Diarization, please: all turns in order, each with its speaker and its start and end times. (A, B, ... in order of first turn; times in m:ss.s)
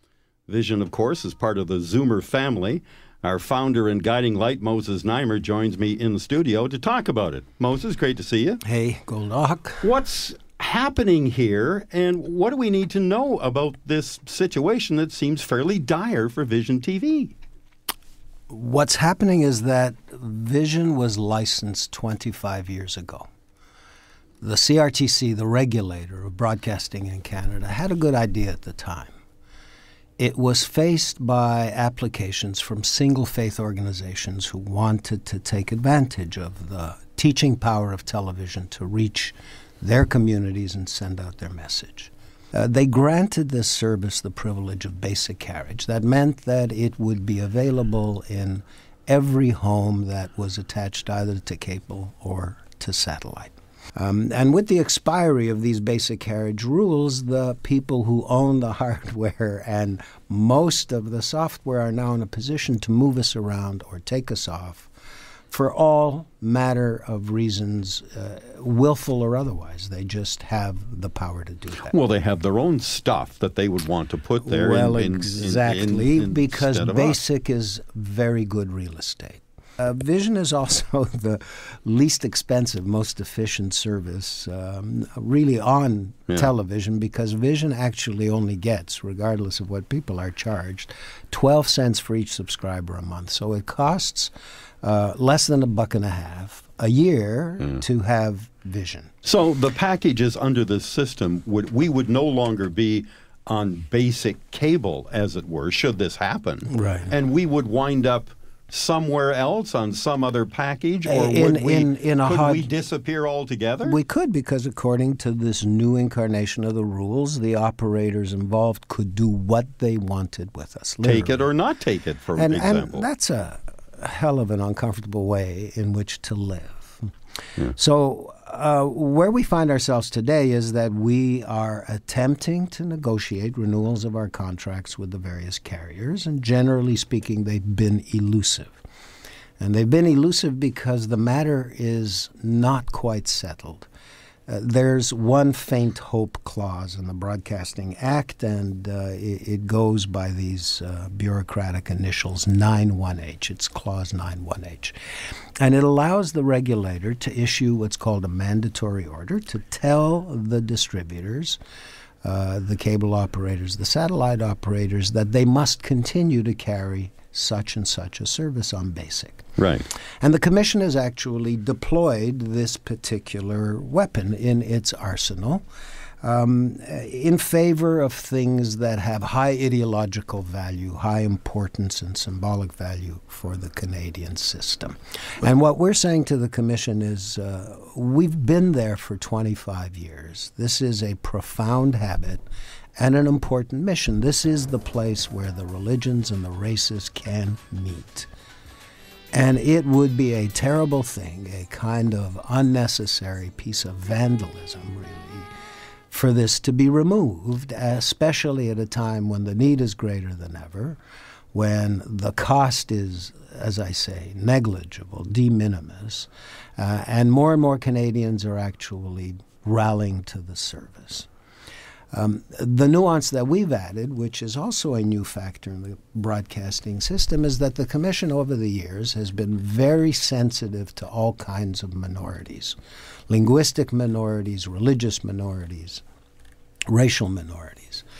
0:00.5-0:08.6 A
0:08.6-0:09.9 B
0:09.8-0:17.4 A
0:18.5-0:23.3 B
0:24.4-0:29.2 B
0:30.2-1:04.9 B
1:05.5-1:12.0 B
1:11.8-1:17.2 A
1:14.4-1:34.3 B
1:34.8-1:39.1 B
1:39.2-1:54.0 A
1:46.7-1:47.1 B
1:51.0-1:52.7 B
1:53.8-2:01.5 B
2:01.0-2:03.0 A
2:02.4-2:07.0 B
2:07.7-2:18.8 B
2:19.6-2:23.9 B
2:24.5-2:34.9 B
2:35.6-2:41.6 B
2:42.2-2:49.5 B
2:49.6-2:49.9 A
2:50.2-2:55.6 B
2:56.2-3:12.4 B
3:13.0-3:18.3 B
3:19.3-3:25.5 B
3:26.1-3:31.0 B
3:31.5-3:41.3 B
3:42.1-3:52.8 B
3:53.3-3:56.0 B
3:56.9-3:58.0 B